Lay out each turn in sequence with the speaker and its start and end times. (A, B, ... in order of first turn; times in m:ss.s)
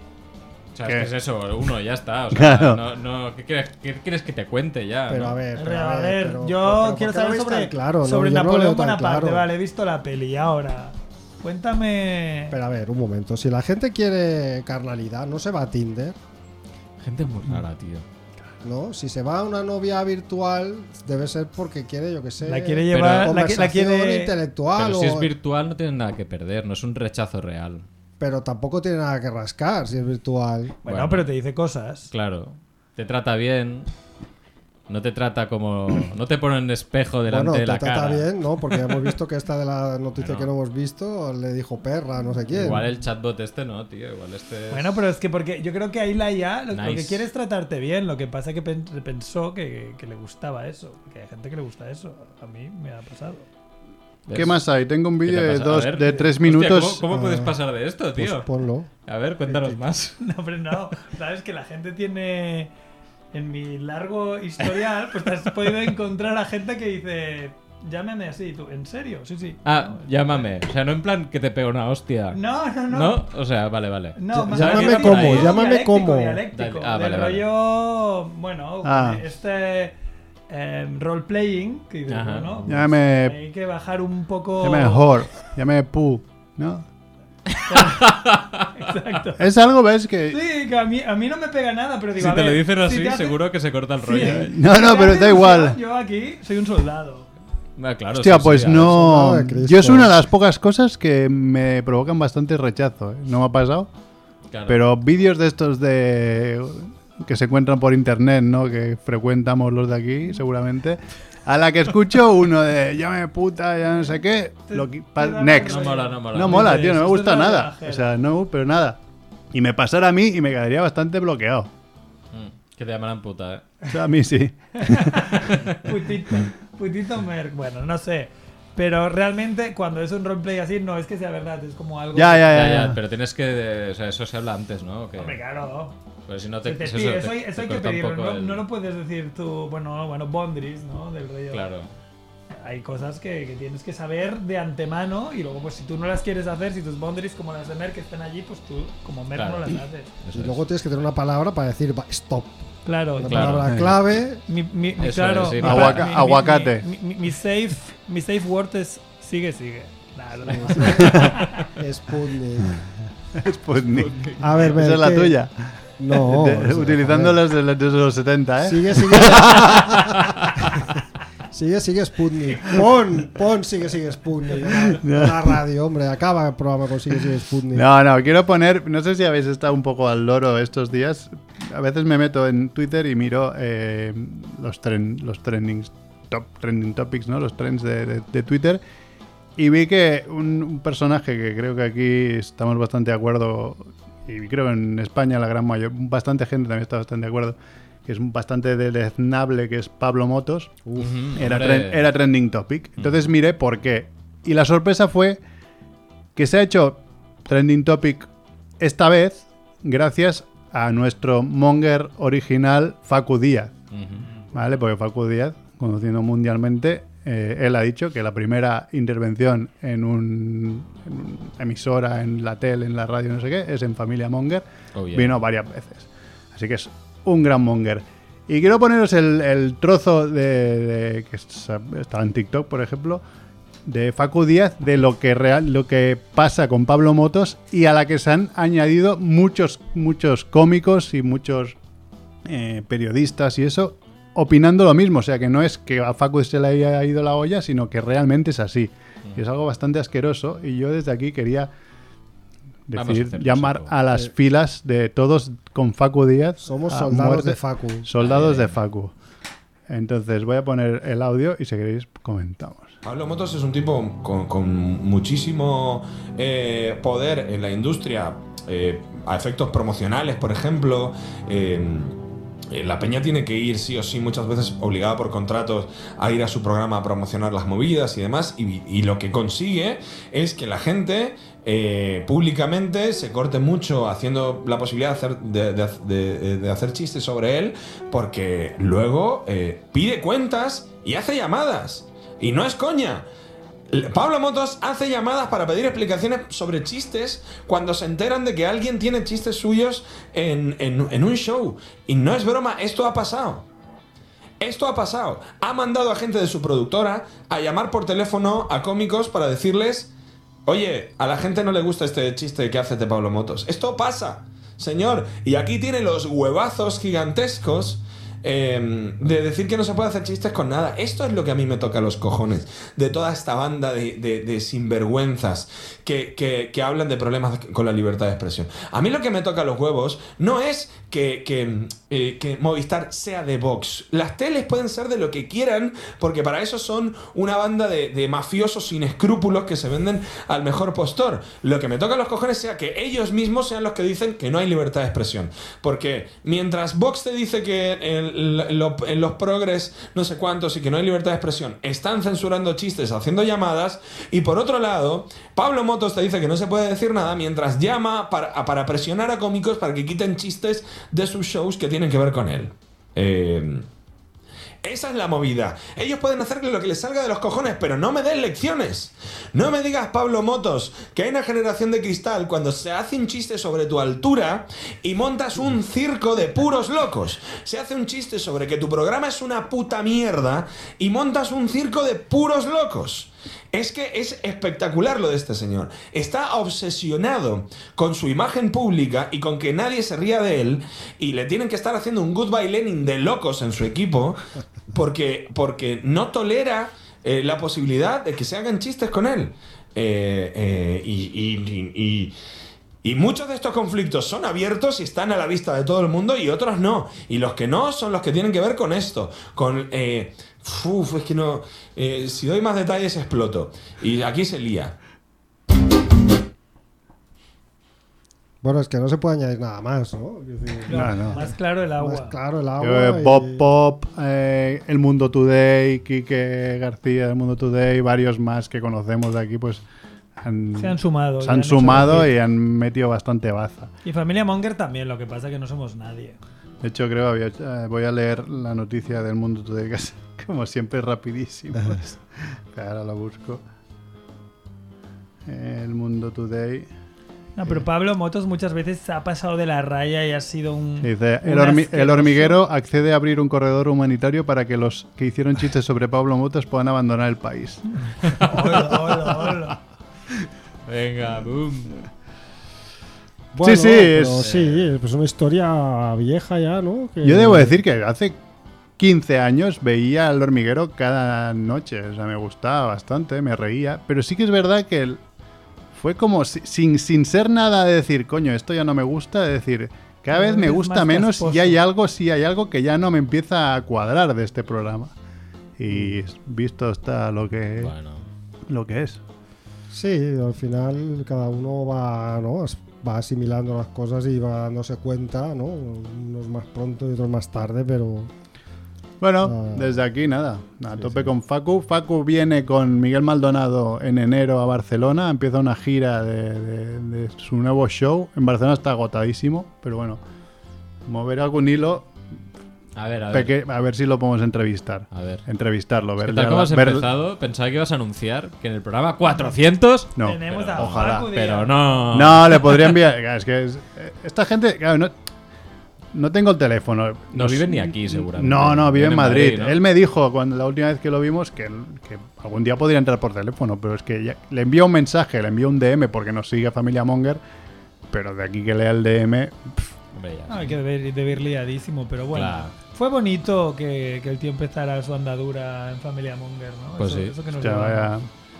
0:00.7-0:05.4 A
0:02.3-0:02.8 B
0:05.1-0:09.4 C
0:05.6-0:12.6 D
0:12.5-0:16.2 C
0:17.0-0:18.0 A
0:18.6-0:25.3 C
0:22.4-0:24.3 D
0:22.9-0:23.3 A
0:24.8-0:27.8 A
0:28.2-0:30.8 C
0:30.8-0:32.1 D
0:30.8-0:31.3 A
0:32.1-0:33.9 A
0:34.9-0:38.3 A
0:37.3-0:42.8 C
0:40.2-0:40.5 A
0:42.5-0:44.8 A
0:44.7-0:53.5 D
0:46.7-0:47.2 A
0:54.2-0:54.6 A
0:54.3-0:57.0 B
0:55.2-0:58.5 A
0:57.1-0:57.5 C
0:58.2-0:58.9 C
0:59.0-1:00.2 A
0:59.4-0:59.8 C
1:00.2-1:02.7 D
1:03.3-1:10.5 D
1:09.6-1:15.6 A
1:12.3-1:13.3 D
1:14.2-1:19.9 D
1:14.3-1:16.4 C
1:16.5-1:17.4 A
1:18.8-1:19.2 B
1:20.5-1:25.2 D
1:22.1-1:22.7 A
1:22.7-1:23.4 B
1:24.6-1:26.8 B
1:27.5-1:28.7 A
1:27.7-1:29.5 D
1:29.4-1:30.4 B
1:30.3-1:33.4 D
1:32.2-1:34.5 A
1:34.0-1:37.3 D
1:34.1-1:35.8 B
1:37.8-1:39.0 A
1:38.1-1:43.9 B
1:38.7-1:40.1 C
1:44.5-1:44.8 A
1:44.7-1:59.0 B
1:54.7-1:58.1 D
1:55.6-1:56.9 A
1:59.5-2:01.7 B
2:02.3-2:03.7 A
2:03.9-2:05.5 B
2:04.8-2:12.7 D
2:12.1-2:13.0 B
2:12.5-2:15.4 A
2:15.2-2:16.0 D
2:16.3-2:18.6 A
2:16.6-2:21.7 D
2:21.5-2:21.9 A
2:22.6-2:30.1 D
2:29.3-2:30.6 A
2:30.3-2:32.6 C
2:32.8-2:33.7 D
2:33.1-2:34.4 C
2:33.2-2:33.8 A
2:34.5-2:41.6 D
2:35.0-2:36.1 A
2:35.6-2:36.8 B
2:40.5-2:42.8 C
2:40.9-2:41.4 B
2:43.3-2:50.2 B
2:43.9-2:44.5 A
2:44.4-2:45.4 C
2:46.0-2:47.4 C
2:48.6-2:50.2 C
2:51.5-2:57.8 C
2:54.7-2:55.6 B
2:57.7-3:08.8 B
3:09.6-3:20.8 B
3:21.0-3:22.0 A
3:21.3-3:25.4 B
3:26.3-3:28.3 B
3:28.8-3:33.8 B
3:33.9-3:34.2 A
3:34.5-3:53.2 B
3:44.9-3:45.4 A
3:53.8-4:01.8 B
4:02.4-4:11.7 B
4:12.9-4:19.1 B
4:12.9-4:13.9 A
4:16.6-4:18.1 C
4:18.2-4:18.8 A
4:19.9-4:22.9 B
4:23.0-4:32.2 E
4:32.7-4:53.3 E
4:53.9-5:03.6 E
5:04.6-5:10.1 E
5:10.6-6:03.9 E
6:04.8-6:42.3 E
6:43.0-6:54.9 E
6:58.6-7:03.6 C
7:00.9-7:02.3 D
7:00.9-7:01.4 B
7:02.8-7:09.8 B
7:10.4-7:13.9 B
7:10.7-7:12.3 D
7:14.0-7:16.4 D
7:16.8-7:23.6 B
7:25.4-7:26.9 B
7:27.6-7:32.6 D
7:31.0-7:37.8 B
7:38.2-7:38.6 A
7:38.4-7:39.8 D
7:40.8-7:42.0 A
7:43.5-7:47.8 C
7:43.6-7:44.5 B
7:44.4-7:44.9 A
7:47.2-7:48.4 B
7:49.0-7:55.2 B
7:55.9-8:05.1 B
8:00.3-8:01.8 D
8:05.8-8:07.9 B
8:07.8-8:08.2 A
8:08.7-8:09.2 B
8:09.9-8:18.3 C
8:19.2-8:30.2 B
8:19.4-8:20.0 C
8:20.9-8:21.3 C
8:31.0-8:32.1 B
8:33.0-8:33.6 A
8:33.3-8:37.1 B
8:35.1-8:35.4 A
8:36.2-8:43.0 A
8:40.2-8:41.3 B
8:40.2-8:42.0 D
8:42.1-8:45.1 B
8:46.1-8:57.4 B
8:47.3-8:49.8 A
8:58.1-8:59.9 B
9:00.1-9:00.7 A
9:00.5-9:08.1 D
9:02.3-9:02.7 A
9:07.0-9:07.3 A
9:07.5-9:08.3 B